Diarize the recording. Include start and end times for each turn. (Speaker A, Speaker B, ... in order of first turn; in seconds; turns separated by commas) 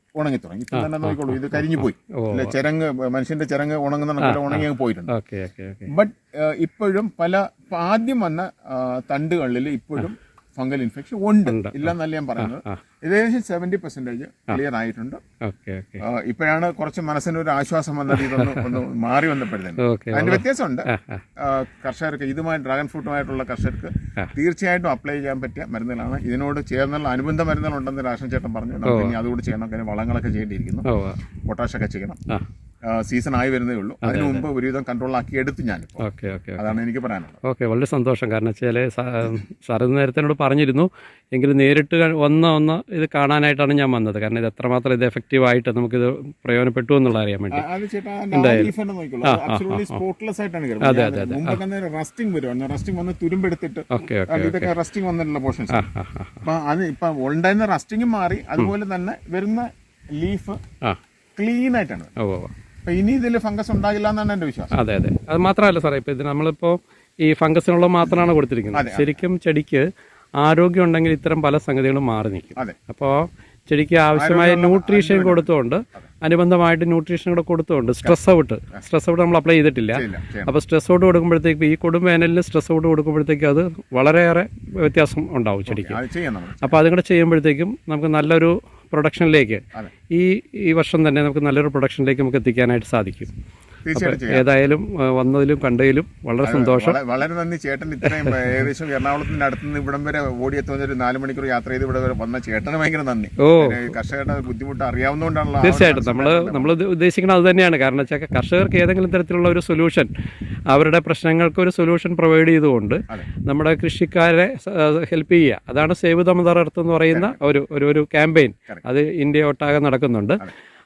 Speaker A: 0.2-5.1, Speaker B: 0.7-2.5, Speaker B: 4.2-5.9, Speaker A: 5.9-15.2, Speaker B: 11.5-11.8, Speaker B: 12.4-12.8, Speaker B: 15.4-16.0, Speaker A: 16.0-30.9, Speaker B: 18.1-18.7, Speaker B: 19.8-21.2, Speaker B: 28.9-29.2, Speaker B: 30.9-31.2, Speaker A: 31.4-32.2, Speaker A: 32.9-36.1, Speaker B: 34.0-34.5, Speaker B: 36.0-36.8, Speaker A: 36.6-37.4, Speaker B: 37.4-47.6, Speaker A: 47.5-55.8, Speaker B: 48.3-48.7, Speaker B: 49.2-50.0, Speaker B: 50.8-51.6, Speaker B: 53.9-54.7, Speaker B: 55.7-56.4, Speaker A: 56.4-60.6, Speaker A: 61.4-62.1, Speaker B: 62.2-62.5, Speaker A: 62.9-64.8, Speaker B: 64.8-69.9, Speaker A: 68.7-69.2, Speaker B: 70.4-86.0, Speaker A: 74.1-76.0, Speaker A: 79.9-80.6, Speaker A: 85.7-86.8, Speaker B: 86.6-93.3, Speaker A: 93.8-94.5, Speaker B: 94.0-97.0, Speaker A: 96.4-106.7, Speaker B: 98.1-98.4, Speaker B: 103.4-103.9, Speaker B: 105.6-110.1, Speaker B: 110.7-120.5, Speaker A: 117.1-117.4